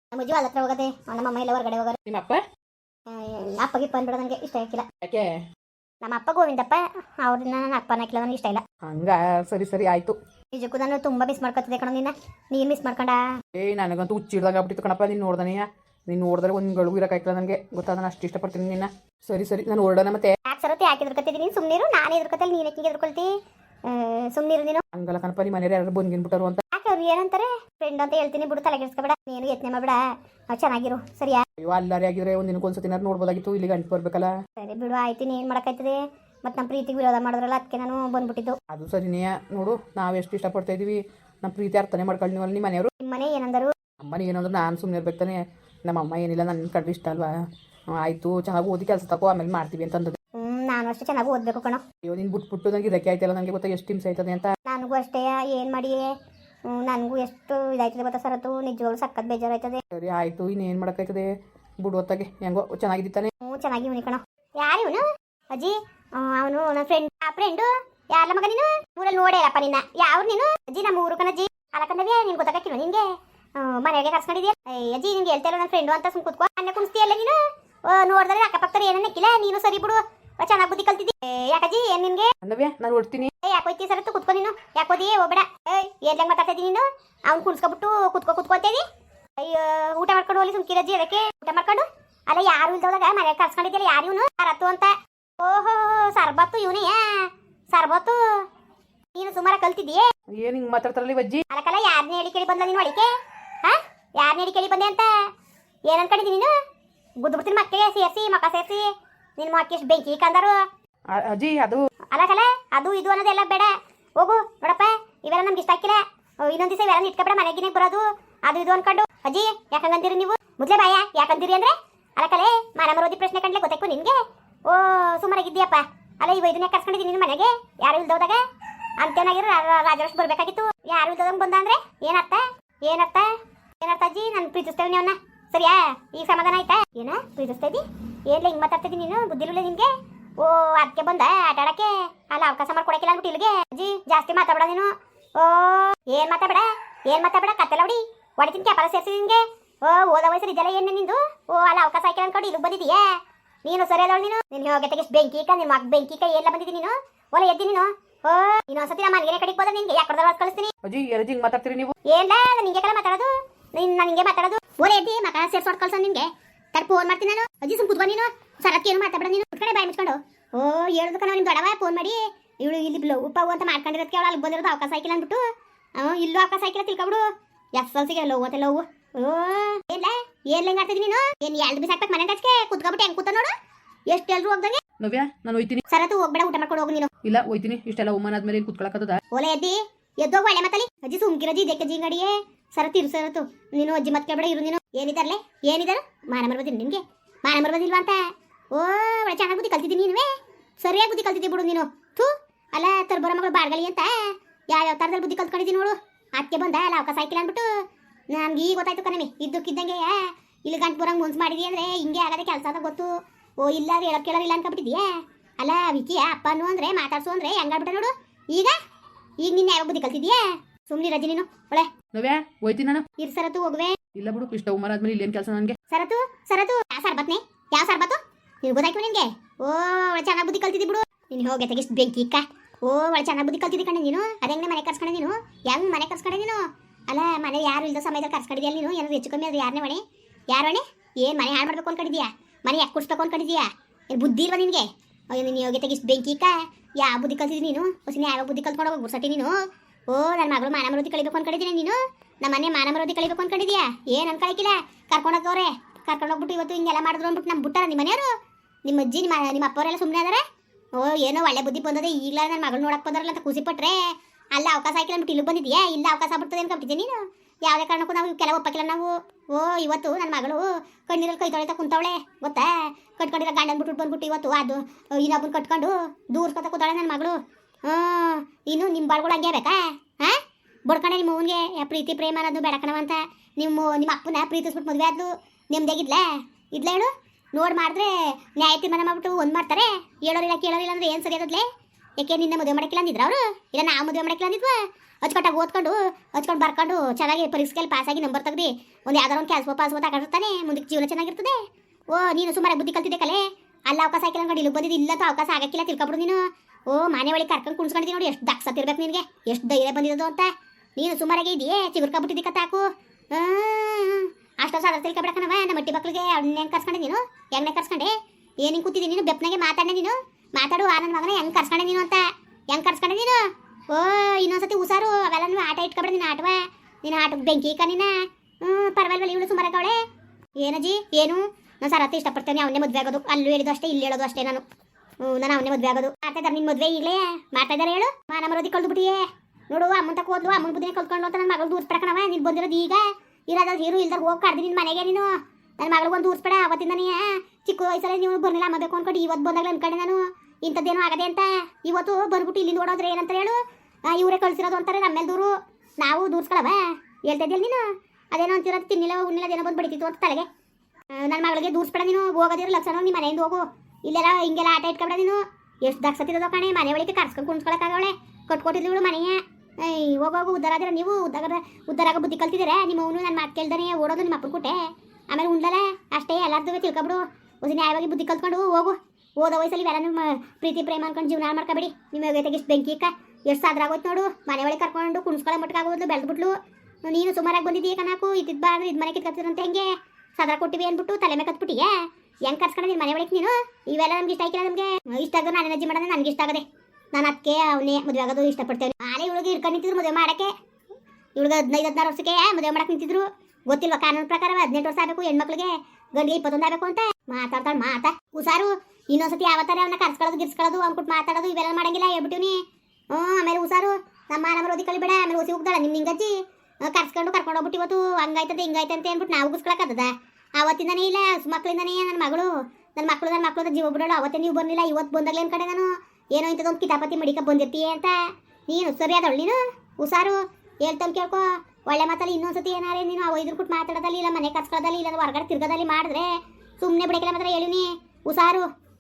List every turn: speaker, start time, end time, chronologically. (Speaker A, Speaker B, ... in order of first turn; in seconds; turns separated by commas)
Speaker A: 0.1-2.0, Speaker B: 2.1-2.4, Speaker A: 3.1-4.9, Speaker B: 5.0-5.4, Speaker A: 6.0-8.6, Speaker B: 8.8-10.2, Speaker A: 10.6-13.2, Speaker B: 13.6-20.4, Speaker A: 20.4-23.3, Speaker A: 23.9-24.8, Speaker B: 24.9-26.6, Speaker A: 26.7-31.4, Speaker B: 31.6-34.3, Speaker A: 34.6-38.6, Speaker B: 38.7-42.9, Speaker A: 43.0-43.7, Speaker B: 44.0-47.3, Speaker B: 48.0-50.2, Speaker A: 50.4-51.8, Speaker B: 52.0-54.5, Speaker A: 54.7-56.2, Speaker A: 56.7-59.8, Speaker B: 59.9-61.3, Speaker B: 61.8-63.3, Speaker A: 63.4-82.3, Speaker B: 82.4-83.3, Speaker A: 83.4-88.8, Speaker A: 89.4-98.5, Speaker A: 99.2-100.1, Speaker B: 100.3-101.5, Speaker A: 101.5-103.1, Speaker A: 103.6-105.3, Speaker A: 105.9-106.5, Speaker A: 107.2-110.6, Speaker B: 111.1-111.8, Speaker A: 112.1-128.4, Speaker A: 129.0-160.7, Speaker B: 160.8-161.9, Speaker A: 162.1-175.4, Speaker A: 176.0-183.5, Speaker A: 184.1-184.8, Speaker B: 185.0-185.8, Speaker A: 185.9-187.1, Speaker B: 187.2-189.2, Speaker A: 189.3-207.7, Speaker A: 208.3-218.8, Speaker A: 219.4-221.9, Speaker B: 222.1-223.1, Speaker A: 223.2-224.0, Speaker B: 224.2-225.8, Speaker A: 225.9-249.6, Speaker A: 250.1-258.3, Speaker A: 258.9-260.4, Speaker A: 260.9-291.7, Speaker A: 292.2-328.1, Speaker A: 328.6-330.0, Speaker A: 330.6-334.6, Speaker A: 335.2-345.3, Speaker A: 345.8-360.5, Speaker A: 361.1-374.8, Speaker A: 375.3-400.5, Speaker A: 401.4-412.6, Speaker A: 413.1-438.7